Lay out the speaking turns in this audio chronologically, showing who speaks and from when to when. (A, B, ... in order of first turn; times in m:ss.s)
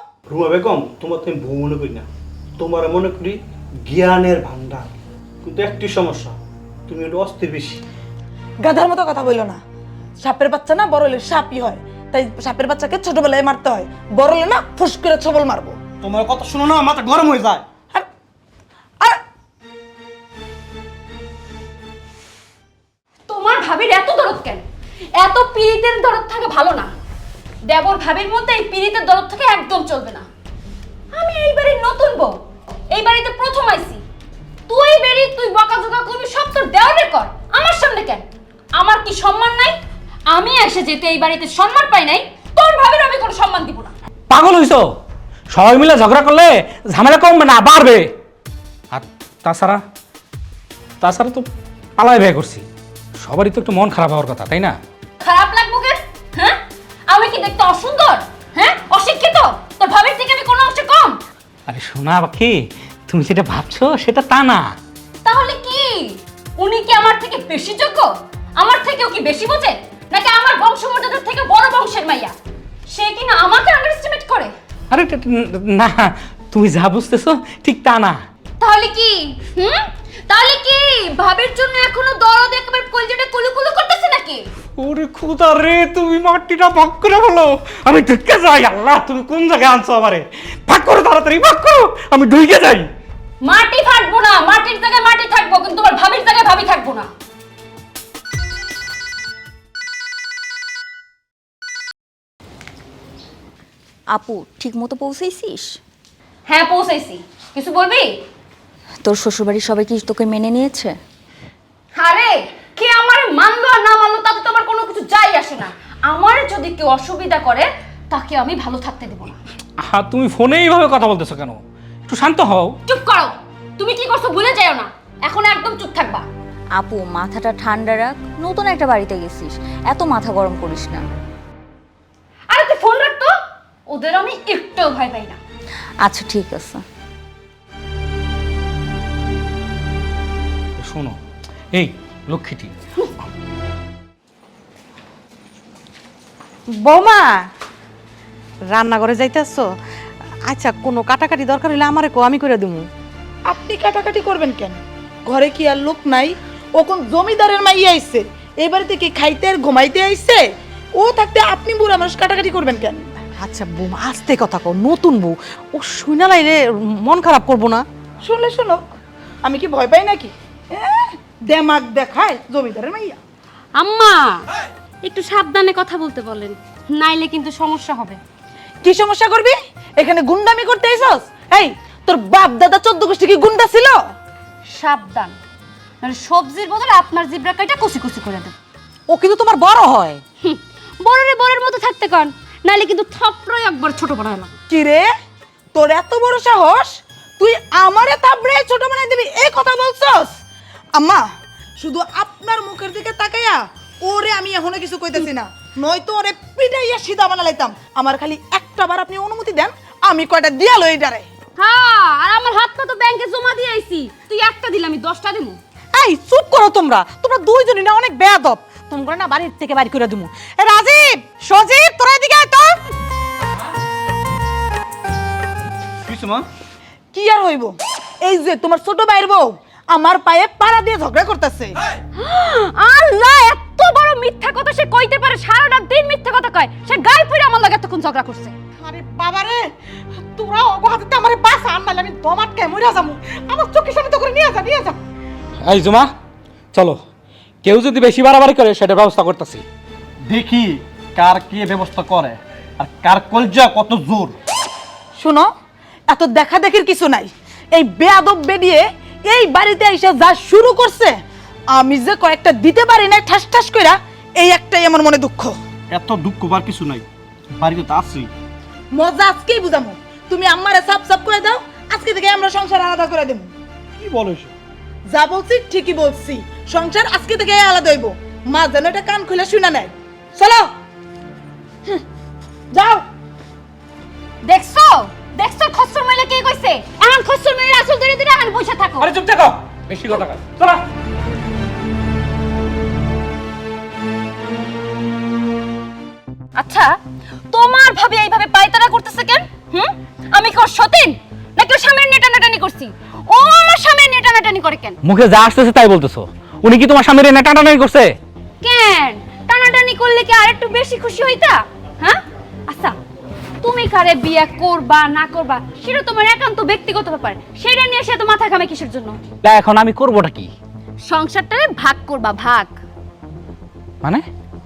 0:00.3-0:02.0 A
0:02.6-0:04.9 A
0:05.4-0:06.3 A
0:06.9-0:07.8 A
0:08.6-0:09.6 B
0:10.2-0:15.8 B
0:16.0-0:17.6 A
0:23.3-0:24.6 C
0:25.2-0:26.9 C
0:27.7-0:30.3 C
0:31.1-0:32.4 C
0:32.9-0:34.0 C
0:34.7-0:38.2 C
0:38.8-0:39.8 C
0:40.3-0:43.9 C
0:44.3-0:44.9 D
0:45.5-0:48.1 D
0:48.9-0:49.8 D
0:51.0-0:52.6 D
0:53.2-0:54.8 D
0:55.2-1:01.2 C
1:01.7-1:04.7 D
1:05.2-1:12.3 C
1:12.9-1:14.5 C
1:14.9-1:18.2 D
1:18.6-1:24.4 C
1:24.8-1:32.9 D
1:33.4-1:37.1 C
1:44.1-1:45.8 E
1:46.5-1:48.2 C
1:49.0-1:50.9 E
1:51.9-1:59.4 C
1:59.8-2:02.8 D
2:02.8-2:06.3 C
2:06.8-2:11.0 E
2:12.5-2:13.3 C
2:13.9-2:15.4 C
2:16.0-2:16.8 E
2:20.8-2:21.2 D
2:21.7-2:22.8 D
2:26.8-2:27.3 F
2:28.7-2:29.7 F
2:30.5-2:32.8 F
2:33.5-2:40.4 B
2:41.0-2:43.1 B
2:43.4-2:47.8 F
2:48.2-2:48.8 B
2:49.4-2:53.2 B
2:53.8-2:54.4 C
2:55.0-2:58.2 C
2:58.8-3:04.0 B
3:04.7-3:05.3 C
3:06.0-3:08.5 C
3:09.1-3:10.2 F
3:10.4-3:14.6 C
3:14.7-3:15.1 B
3:15.7-3:20.4 B
3:21.0-3:21.2 B
3:21.8-3:31.2 B
3:31.6-3:35.6 C
3:35.9-3:42.7 F
3:46.0-3:46.4 A
3:47.1-3:51.7 B
3:52.2-3:58.5 C
3:58.8-3:59.7 F
4:00.3-4:05.0 F
4:05.6-4:06.1 D
4:06.7-4:07.0 D
4:07.6-4:09.6 D
4:10.3-4:14.3 A
4:15.2-4:15.5 B
4:16.1-4:21.2 B
4:21.7-4:25.5 B
4:25.9-4:27.0 A
4:27.5-4:28.3 A
4:28.9-4:33.5 B
4:34.0-4:34.5 A
4:35.1-4:40.7 B
4:42.7-4:43.0 B
4:44.4-4:49.1 C
4:49.0-4:50.8 D
4:56.6-4:57.0 C
4:57.5-5:05.0 C
5:05.0-5:08.2 D
5:08.6-5:13.0 C
5:13.6-5:19.2 C
5:19.4-5:20.5 D
5:21.1-5:22.7 C